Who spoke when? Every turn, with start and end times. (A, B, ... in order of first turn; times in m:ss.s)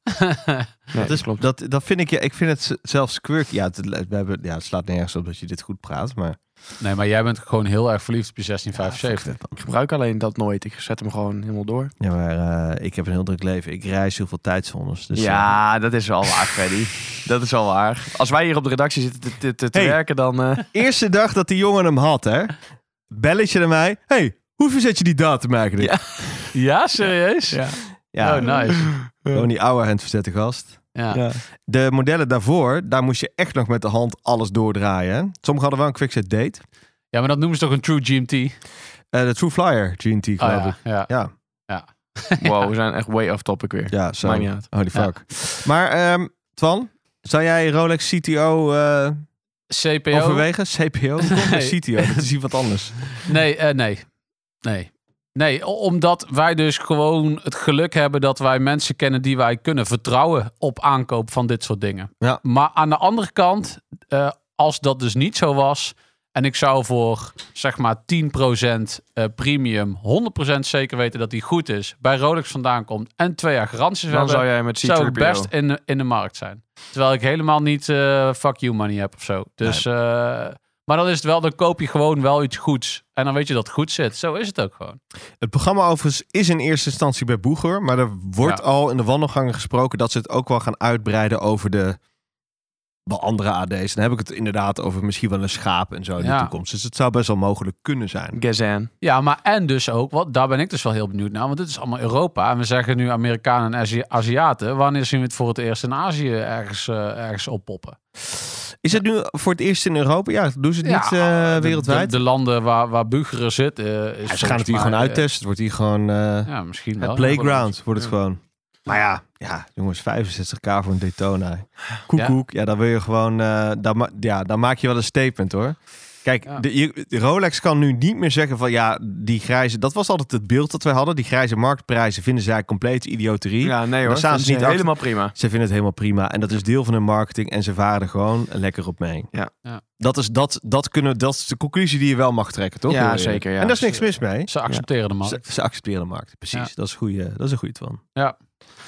0:00.1-0:00.7 A
0:00.9-0:01.4 B
0:01.0-0:06.4 C
0:06.8-0:09.3 A
0:08.8-0:09.6 C
0:09.6-0:11.9 B
0:12.0-0:15.5 C
0:15.2-0:20.7 B
0:19.7-0:20.0 C
0:20.7-0:22.6 C
0:23.1-0:26.4 C
0:25.8-0:26.1 B
0:26.5-0:27.6 A
0:27.5-0:27.8 B
0:28.1-0:28.5 C
0:28.2-0:28.9 A
0:28.4-0:29.5 B
0:29.3-0:30.8 C
0:30.9-0:31.2 A
0:31.1-0:31.4 B
0:31.7-0:36.6 C
0:37.1-0:38.6 A
0:39.1-0:41.3 C
0:40.4-0:41.1 A
0:41.7-0:42.6 A
0:42.4-0:44.7 B
0:43.9-0:49.2 C
0:49.7-0:50.5 A
0:50.1-0:52.9 C
0:51.2-0:52.2 A
0:53.2-0:54.0 A
0:54.6-1:25.0 A
1:14.1-1:15.5 B
1:25.4-1:32.0 C
1:33.0-1:38.4 C
1:36.2-1:36.5 A
1:38.3-1:38.9 B
1:39.0-1:48.0 A
1:48.3-1:52.2 C
1:50.8-1:55.2 A
1:54.3-2:19.3 C
1:56.5-1:57.7 A
2:13.6-2:15.3 B
2:20.0-2:24.5 C
2:22.9-2:23.8 B
2:23.9-2:25.4 A
2:25.2-2:28.0 C